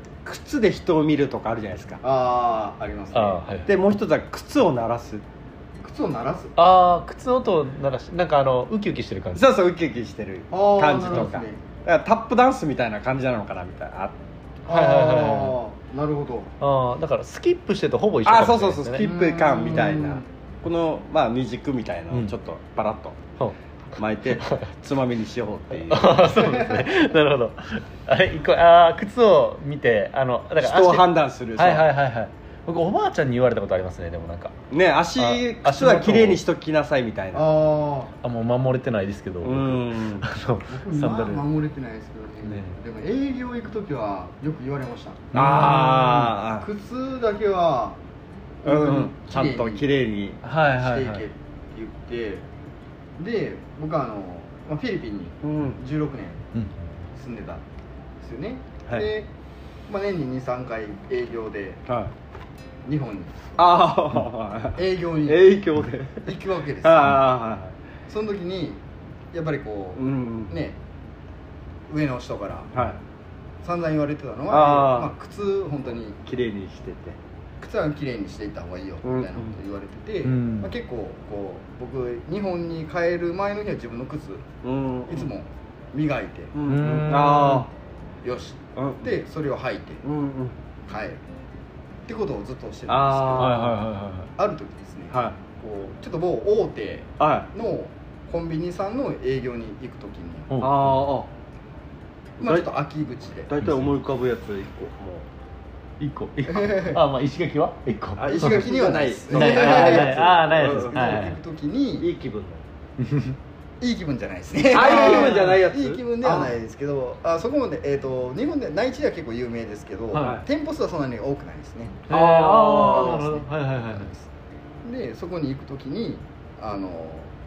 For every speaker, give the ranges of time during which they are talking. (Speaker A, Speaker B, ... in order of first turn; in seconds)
Speaker A: 0.2-2.0, 3.7-5.2, 9.3-14.1, 18.2-23.2, 24.0-26.3, 30.6-31.9, 34.7-37.5, 39.4-40.3, 45.3-46.7, 48.6-50.4, 55.4-55.8, 63.6-66.3, 66.8-67.7, 70.0-70.5, 74.5-75.1, 76.2-77.2, 79.0-79.5, 84.6-85.3, 86.5-87.7, 88.8-89.1, 90.0-90.5, 92.9-93.7, 97.2-97.5, 100.6-101.3, 103.5-105.2, 108.2-111.0, 112.0-112.6, 114.7-116.4, 122.1-123.2
Speaker B: 2.0-3.4, 5.8-6.5, 10.5-11.6, 14.6-16.5, 19.0-20.2, 26.4-26.9, 37.3-38.1, 40.7-45.3, 46.6-48.0, 48.6-49.8, 50.7-52.5, 53.2-56.4, 57.1-57.6, 58.2-59.3, 59.9-61.8, 62.8-63.5, 64.7-65.7, 66.2-67.2, 68.1-70.8, 71.9-72.8, 73.6-76.2, 77.6-84.5, 85.1-87.5, 88.2-90.0, 90.9-91.2, 92.0-93.8, 94.3-100.5, 102.4-103.5, 106.5-107.0, 108.3-112.1, 113.8-122.0, 122.7-124.3, 124.8-127.3
Speaker C: 3.1-3.8, 6.5-9.4, 11.1-11.4, 14.7-15.6, 16.6-19.1, 24.4-24.6, 25.9-34.5, 35.2-36.4, 38.2-41.4, 42.4-42.7, 45.3-46.3, 50.4-51.2, 80.2-80.7, 86.7-87.7, 93.4-94.3, 100.5-101.0, 103.6-104.0, 106.0-108.7, 109.3-111.3, 113.0-113.4, 114.8-115.5, 122.1-124.1